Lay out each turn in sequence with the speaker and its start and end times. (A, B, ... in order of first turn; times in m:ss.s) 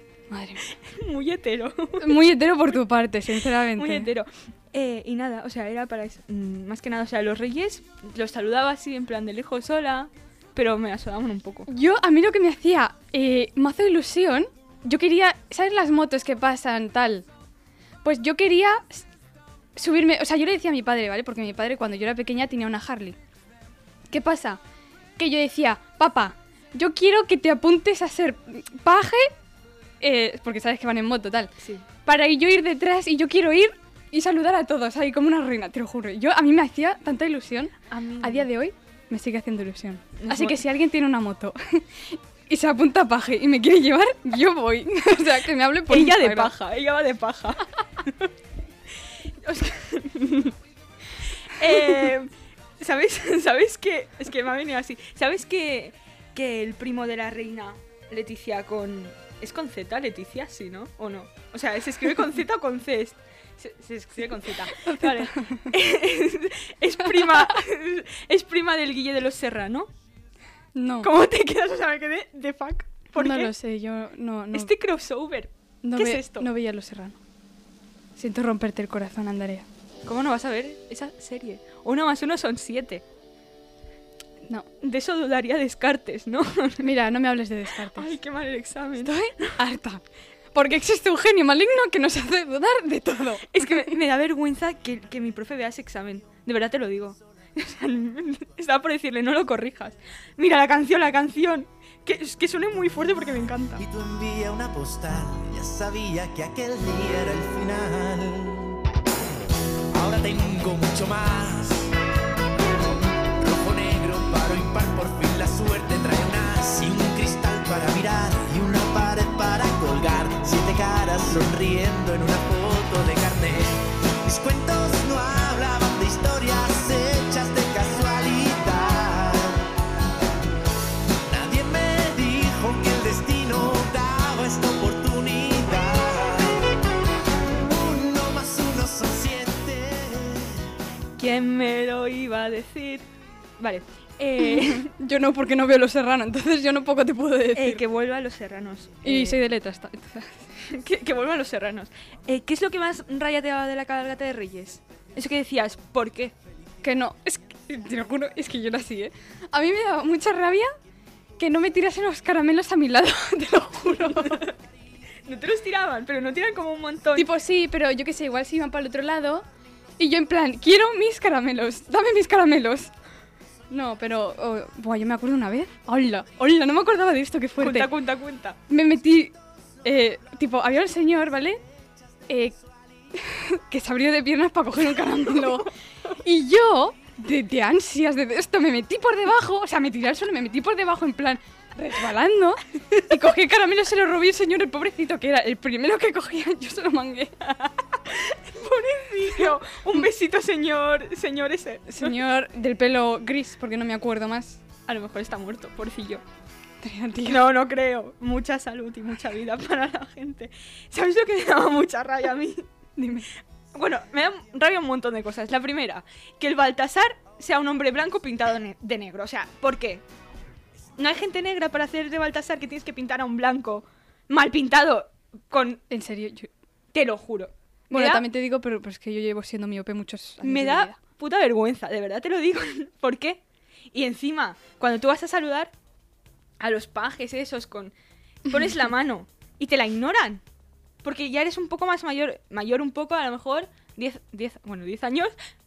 0:00.3-0:00.6 A
0:00.8-0:02.2 B
0:02.0-0:04.1 A
0:03.8-0:11.7 B
0:11.7-0:17.2 A
0:18.0-0:19.1 A
0:19.8-0:23.2 A
0:24.1-0:24.6 A
0:25.2-0:29.3 A
0:30.0-0:31.5 A
0:31.6-0:31.8 B
0:32.1-0:46.5 A
0:37.9-0:38.5 B
0:40.2-0:40.6 B
0:45.9-0:48.3 B
0:49.4-0:50.6 B
0:51.5-1:09.9 B
0:51.7-0:52.0 A
1:04.7-1:05.7 A
1:10.8-1:11.1 A
1:11.0-1:13.5 B
1:13.2-1:14.7 A
1:14.5-1:16.5 B
1:15.8-1:17.2 A
1:18.2-1:19.7 A
1:20.1-1:23.0 B
1:24.8-1:26.9 B
1:26.8-1:28.1 A
1:27.9-1:29.6 B
1:29.0-1:30.0 A
1:30.5-1:33.9 A
1:33.5-1:43.8 B
1:43.8-1:48.7 C
1:49.9-1:51.9 C
1:53.3-2:09.7 C
2:11.2-2:16.7 C
2:17.4-2:20.6 C
2:21.2-2:23.0 B
2:23.6-2:24.9 B
2:24.4-2:27.8 A
2:27.6-2:29.4 B
2:29.0-2:30.4 A
2:30.6-2:36.3 B
2:36.8-2:40.7 A
2:41.4-2:44.5 A
2:44.0-2:44.6 B
2:45.2-2:47.3 B
2:47.1-2:49.4 A
2:50.0-2:52.9 A
2:53.7-2:57.9 A
2:57.6-2:58.6 B
2:58.7-3:01.6 A
3:02.3-3:02.6 A
3:03.1-3:17.3 A
3:17.4-3:22.2 B
3:19.4-3:20.1 A
3:21.9-3:24.6 A
3:24.9-3:26.2 B
3:26.8-3:27.5 A
3:27.2-3:32.7 B
3:33.0-3:33.3 A
3:33.7-3:40.0 B
3:41.0-3:45.8 B
3:45.9-3:46.5 A
3:46.9-3:48.2 B
3:47.9-3:51.0 A
3:50.4-3:53.4 B
3:53.9-3:55.7 B
3:56.6-3:57.9 B
3:58.5-4:00.4 B
3:58.5-3:58.8 A
4:01.0-4:05.4 B